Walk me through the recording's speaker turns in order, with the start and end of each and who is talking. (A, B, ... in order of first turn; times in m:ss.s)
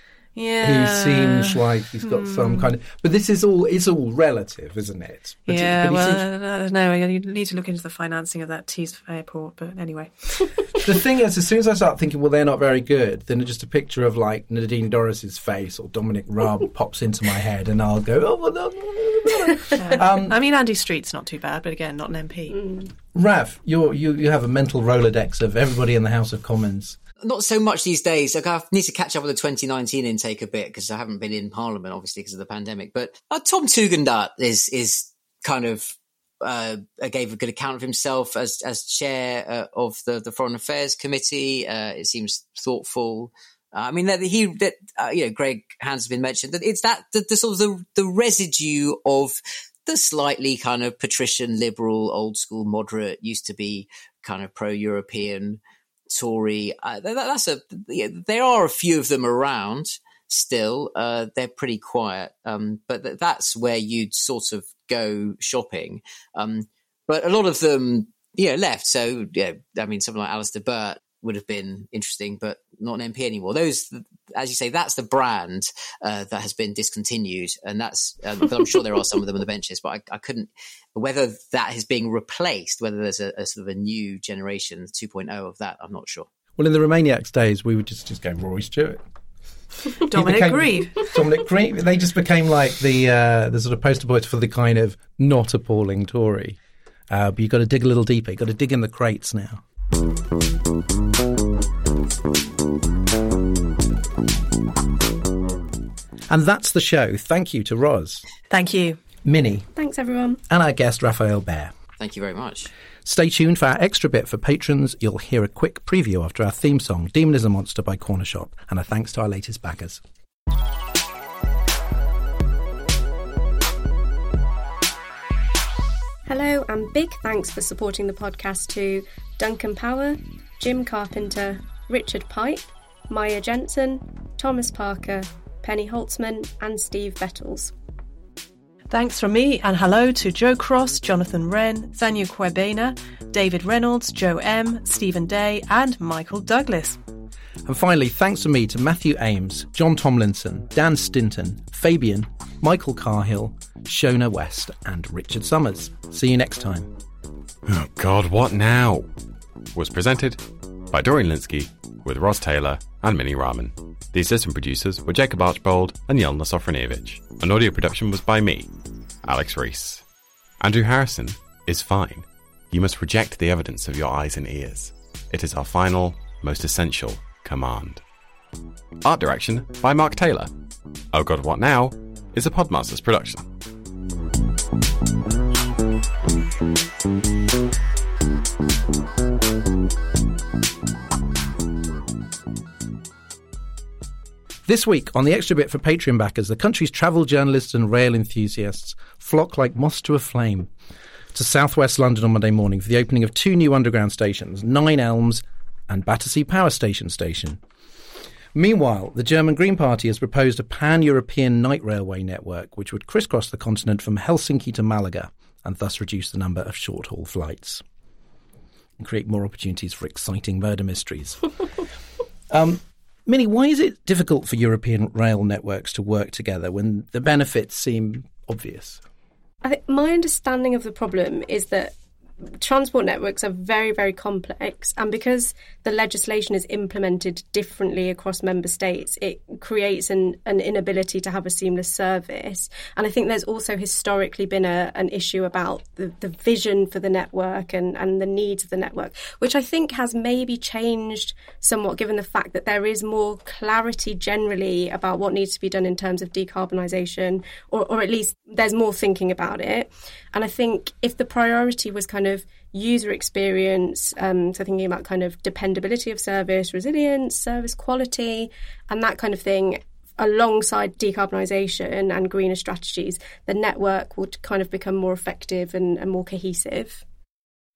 0:00.3-0:02.7 A
0:00.6-0:06.2 B
0:05.5-0:10.8 A
0:10.8-0:20.4 B
0:19.8-0:22.8 A
0:23.1-0:27.0 B
0:27.2-0:55.6 C
0:56.1-1:26.3 C
1:26.6-1:29.0 B
1:30.1-1:36.6 B
1:30.1-1:31.1 A
1:37.1-1:39.6 B
1:46.3-1:48.2 B
1:48.5-1:49.0 A
1:49.2-1:49.7 B
1:49.8-1:50.4 D
1:50.5-1:51.7 B
1:52.0-1:52.7 C
1:53.0-2:00.0 B
2:06.3-2:17.7 D
2:18.9-2:27.0 A
2:27.6-2:36.9 B
2:37.7-2:39.1 E
2:39.7-2:50.0 E
2:50.6-2:58.0 E
2:59.0-3:00.5 E
3:01.1-3:03.5 E
3:14.7-3:20.7 B
3:21.3-3:27.6 B
3:28.5-3:37.8 B
3:39.0-3:41.4 B
3:42.5-3:49.0 B
3:49.6-3:51.9 D
3:52.5-4:37.0 D